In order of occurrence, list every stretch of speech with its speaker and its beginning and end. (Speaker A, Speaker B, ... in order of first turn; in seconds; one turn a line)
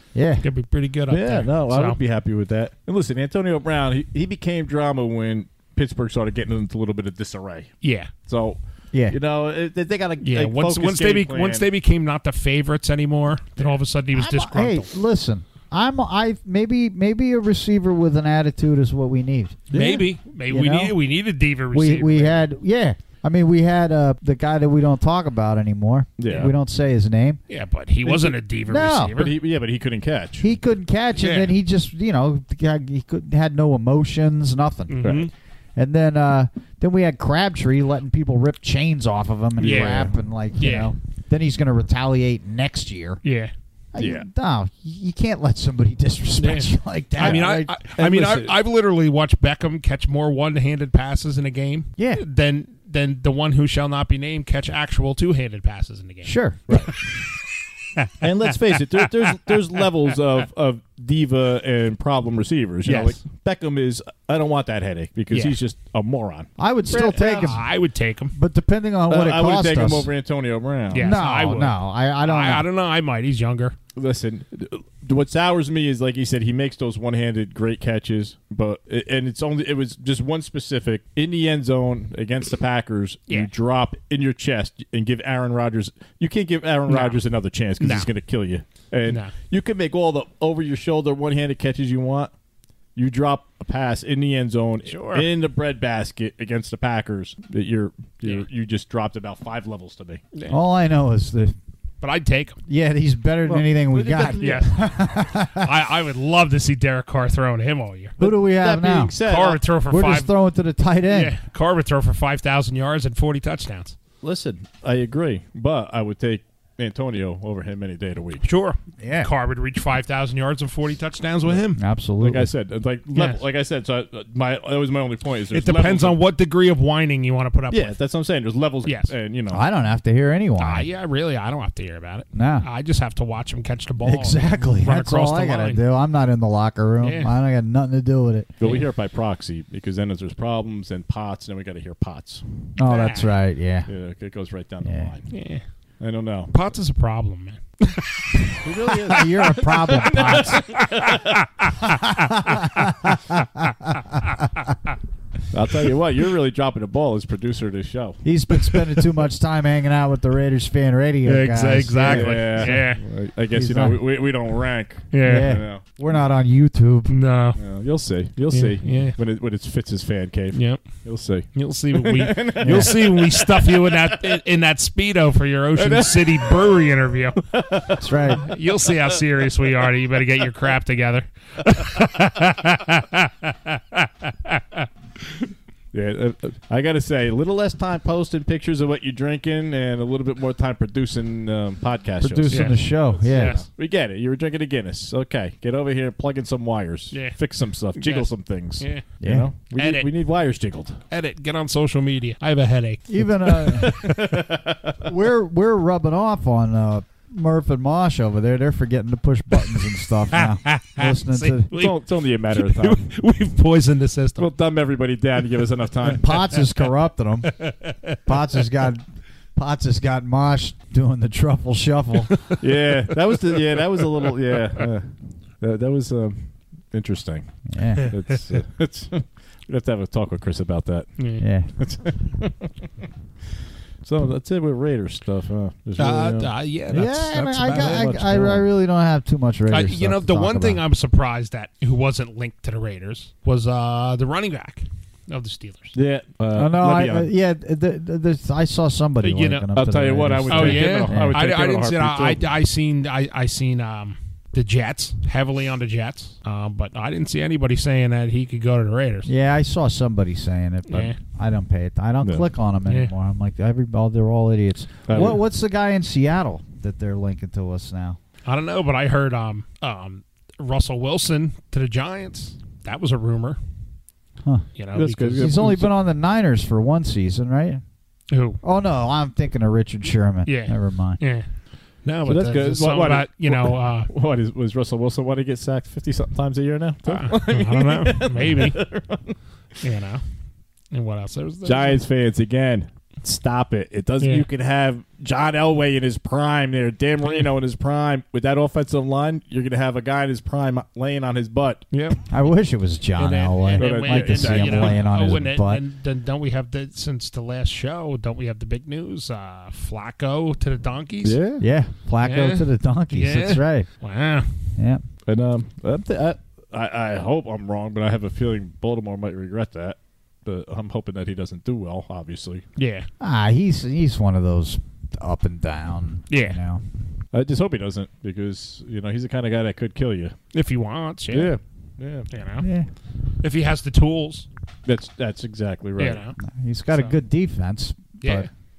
Speaker A: 0.1-0.4
Speaker B: 0.4-2.0
Speaker C: 1.1-7.7
Speaker B: 7.8-8.1
Speaker C: 8.2-11.7
Speaker A: 8.9-9.2
Speaker B: 10.2-14.9
Speaker A: 14.1-20.9
Speaker B: 19.7-22.4
Speaker C: 19.7-20.0
Speaker A: 21.7-27.4
Speaker C: 26.2-26.5
Speaker B: 27.5-29.3
Speaker C: 28.1-28.4
Speaker A: 28.7-29.2
Speaker C: 29.1-30.5
Speaker A: 30.4-35.1
Speaker B: 31.2-31.5
Speaker B: 34.9-35.3
Speaker C: 35.0-35.3
Speaker A: 35.8-43.2
Speaker C: 39.6-40.1
Speaker B: 39.6-40.9
Speaker B: 43.2-43.5
Speaker A: 43.9-47.8
Speaker C: 44.0-44.3
Speaker B: 46.4-56.3
Speaker C: 47.2-48.6
Speaker A: 52.0-52.2
Speaker A: 56.2-56.8
Speaker C: 56.7-57.0
Speaker B: 58.0-58.2
Speaker C: 58.2-67.6
Speaker B: 62.8-63.2
Speaker B: 65.3-65.6
Speaker A: 66.6-67.7
Speaker B: 66.9-68.3
Speaker A: 68.3-70.1
Speaker C: 69.1-71.2
Speaker B: 70.9-73.8
Speaker A: 71.0-72.6
Speaker C: 73.9-92.3
Speaker B: 86.9-87.2
Speaker B: 87.8-88.1
Speaker B: 89.1-89.3
Speaker C: 93.0-100.2
Speaker B: 94.9-95.3
Speaker B: 100.3-100.6
Speaker A: 100.5-101.5
Speaker B: 102.0-102.6
Speaker A: 102.7-105.7
Speaker C: 103.4-104.8
Speaker B: 104.4-104.8
Speaker B: 105.5-108.1
Speaker A: 108.2-109.2
Speaker C: 108.2-109.6
Speaker B: 109.2-110.3
Speaker A: 109.9-111.3
Speaker B: 111.1-114.0
Speaker C: 114.2-118.4
Speaker B: 118.4-121.8
Speaker A: 119.0-119.3
Speaker A: 121.8-122.5
Speaker C: 122.2-126.2
Speaker B: 123.1-123.4
Speaker B: 125.5-128.0
Speaker C: 127.7-129.6
Speaker B: 128.8-129.1
Speaker A: 129.5-130.9
Speaker B: 130.6-135.8
Speaker A: 132.3-132.7
Speaker A: 134.0-138.5
Speaker B: 137.0-137.3
Speaker C: 138.6-142.7
Speaker A: 142.8-143.9
Speaker B: 142.8-143.3
Speaker C: 143.9-145.3
Speaker A: 144.8-145.1
Speaker B: 145.3-145.6
Speaker C: 146.0-146.5
Speaker B: 146.5-148.6
Speaker C: 148.6-151.4
Speaker A: 149.1-150.8
Speaker B: 150.1-152.3
Speaker A: 151.9-153.7
Speaker C: 155.5-158.2
Speaker A: 158.2-162.9
Speaker B: 161.2-163.0
Speaker C: 162.0-165.8
Speaker A: 163.5-164.0
Speaker B: 165.1-165.5
Speaker A: 165.2-167.2
Speaker B: 167.1-167.6
Speaker C: 167.6-174.4
Speaker B: 168.5-169.2
Speaker B: 170.5-177.4
Speaker A: 172.6-173.0
Speaker C: 175.8-179.2
Speaker A: 178.0-178.4
Speaker B: 178.3-184.9
Speaker C: 185.9-201.0
Speaker A: 192.2-193.6
Speaker B: 192.5-193.7
Speaker B: 197.1-197.4
Speaker B: 197.9-199.1
Speaker A: 199.2-199.5
Speaker B: 199.7-200.1
Speaker B: 201.1-204.1
Speaker A: 203.1-204.1
Speaker C: 203.8-205.0
Speaker A: 205.0-211.7
Speaker B: 210.3-211.9
Speaker C: 211.7-213.1
Speaker B: 212.5-214.5
Speaker C: 214.4-216.3
Speaker A: 216.1-217.6
Speaker B: 217.5-218.2
Speaker A: 218.2-219.0
Speaker A: 219.6-222.3
Speaker C: 222.6-232.7
Speaker A: 227.7-228.1
Speaker B: 231.2-231.4
Speaker A: 231.4-231.7
Speaker C: 234.0-236.5
Speaker B: 236.0-238.2
Speaker A: 236.9-240.8
Speaker C: 237.7-238.6
Speaker B: 239.7-245.9
Speaker C: 245.9-247.3
Speaker A: 246.5-251.4
Speaker B: 249.2-249.7
Speaker C: 249.7-252.4
Speaker B: 250.5-259.3
Speaker A: 259.2-268.2
Speaker B: 260.9-261.2
Speaker C: 262.2-262.5
Speaker C: 265.1-265.4
Speaker B: 268.4-273.6
Speaker B: 274.8-275.5
Speaker C: 274.9-275.9
Speaker A: 275.4-277.8
Speaker B: 278.3-278.6
Speaker A: 278.6-281.2
Speaker B: 280.4-281.5
Speaker B: 282.0-284.1
Speaker C: 282.2-289.4
Speaker B: 287.1-288.8
Speaker B: 289.8-290.2
Speaker B: 290.9-292.0
Speaker C: 291.6-301.9
Speaker B: 294.2-294.5
Speaker B: 301.9-302.2
Speaker A: 302.3-305.8
Speaker B: 303.2-311.4
Speaker C: 303.8-305.0
Speaker C: 311.2-311.6
Speaker A: 311.6-313.9
Speaker B: 312.2-314.5
Speaker A: 314.8-315.0
Speaker C: 315.2-322.7
Speaker B: 322.8-323.1
Speaker A: 323.2-326.8
Speaker B: 326.3-326.6
Speaker C: 327.3-330.4
Speaker B: 330.5-331.5
Speaker C: 331.3-332.3
Speaker B: 332.3-332.7
Speaker A: 332.6-332.9
Speaker B: 333.4-334.5
Speaker C: 334.9-336.2
Speaker B: 336.0-336.4
Speaker A: 336.4-338.5
Speaker B: 338.2-338.5